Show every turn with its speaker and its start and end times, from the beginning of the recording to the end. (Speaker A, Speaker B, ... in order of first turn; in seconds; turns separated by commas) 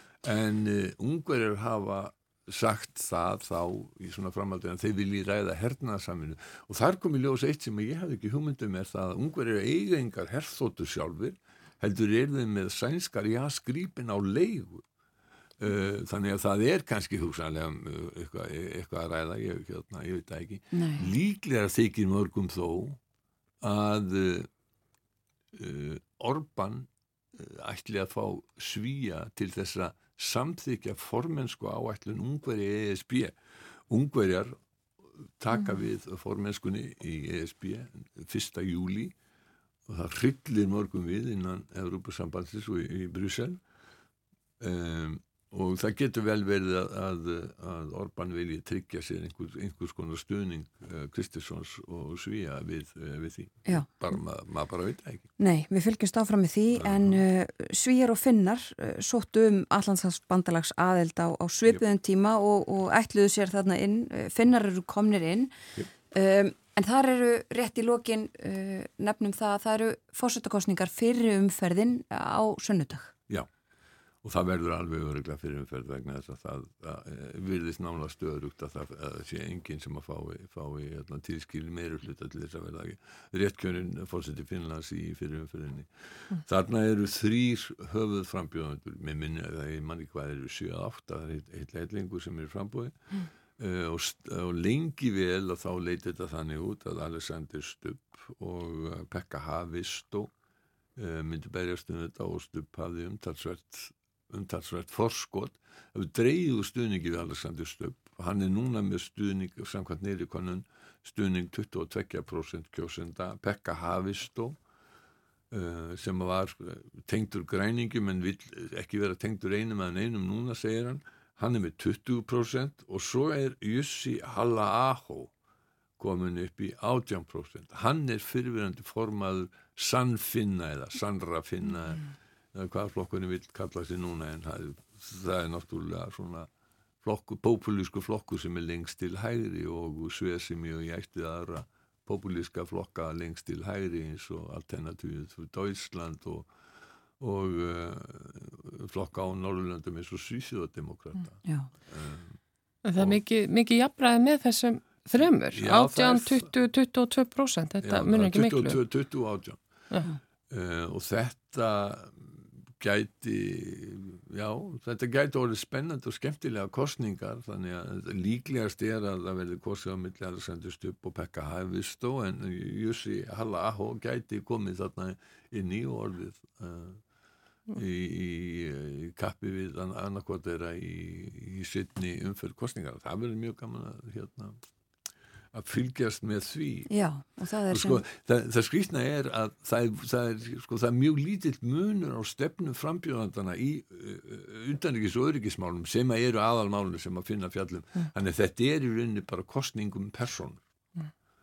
Speaker A: 0.2-14.8, Speaker A: 15.6-23.0, Speaker B: 20.7-21.1, Speaker A: 23.6-24.5, Speaker A: 25.5-33.3, Speaker A: 33.9-34.5, Speaker A: 35.4-39.1, Speaker A: 39.9-43.6, Speaker A: 44.6-55.3, Speaker B: 55.4-65.5, Speaker A: 56.8-57.2, Speaker B: 66.1-73.1, Speaker A: 74.2-100.3, Speaker A: 101.0-114.6, Speaker A: 115.5-125.3, Speaker A: 126.0-136.5, Speaker A: 137.0-146.5, Speaker A: 147.2-152.4, Speaker C: 152.8-158.8, Speaker A: 155.0-156.5, Speaker A: 157.8-159.6, Speaker A: 160.5-162.2, Speaker A: 162.8-177.0, Speaker A: 177.7-184.6, Speaker A: 185.5-186.9, Speaker B: 186.9-188.0, Speaker A: 187.7-200.6